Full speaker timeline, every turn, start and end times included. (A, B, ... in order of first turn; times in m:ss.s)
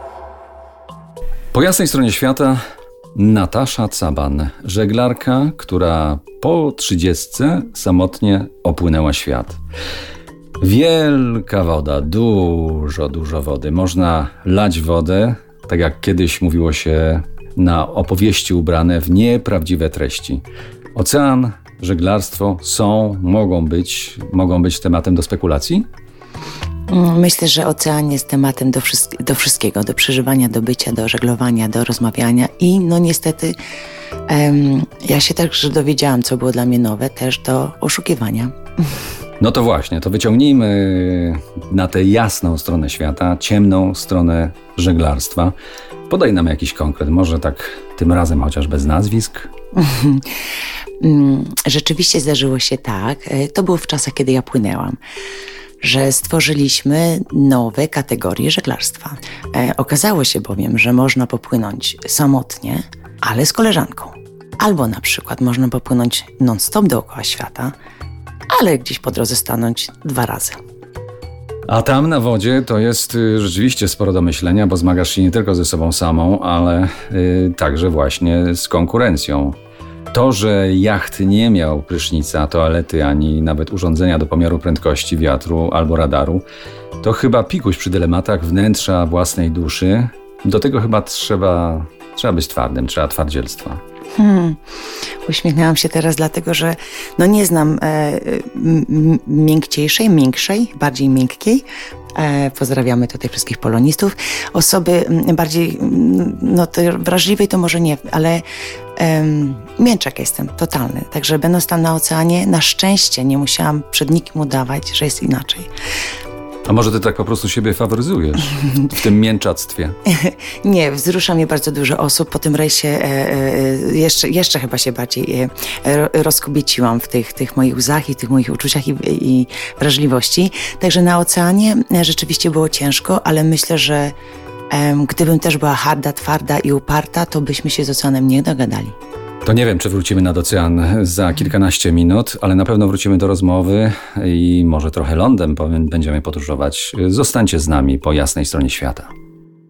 0:01.5-0:02.6 A
0:03.2-0:09.6 A
0:10.6-0:20.4 A
0:21.0-0:25.9 A
0:26.9-0:33.6 B
0:34.3-0:38.5 B
0:39.4-0:45.6 A
0:46.1-0:49.5 A
0:49.8-0:50.3 B
0:51.0-0:55.0 B
0:55.8-1:07.7 B
1:08.5-1:10.6 B
1:11.7-1:19.6 A
1:20.1-1:26.5 A
1:27.0-1:33.8 A
1:34.2-1:34.6 B
1:35.2-1:48.4 B
1:49.0-1:55.7 B
1:56.7-2:00.0 A
2:00.1-2:14.1 B
2:14.7-2:19.0 B
2:19.4-2:29.1 A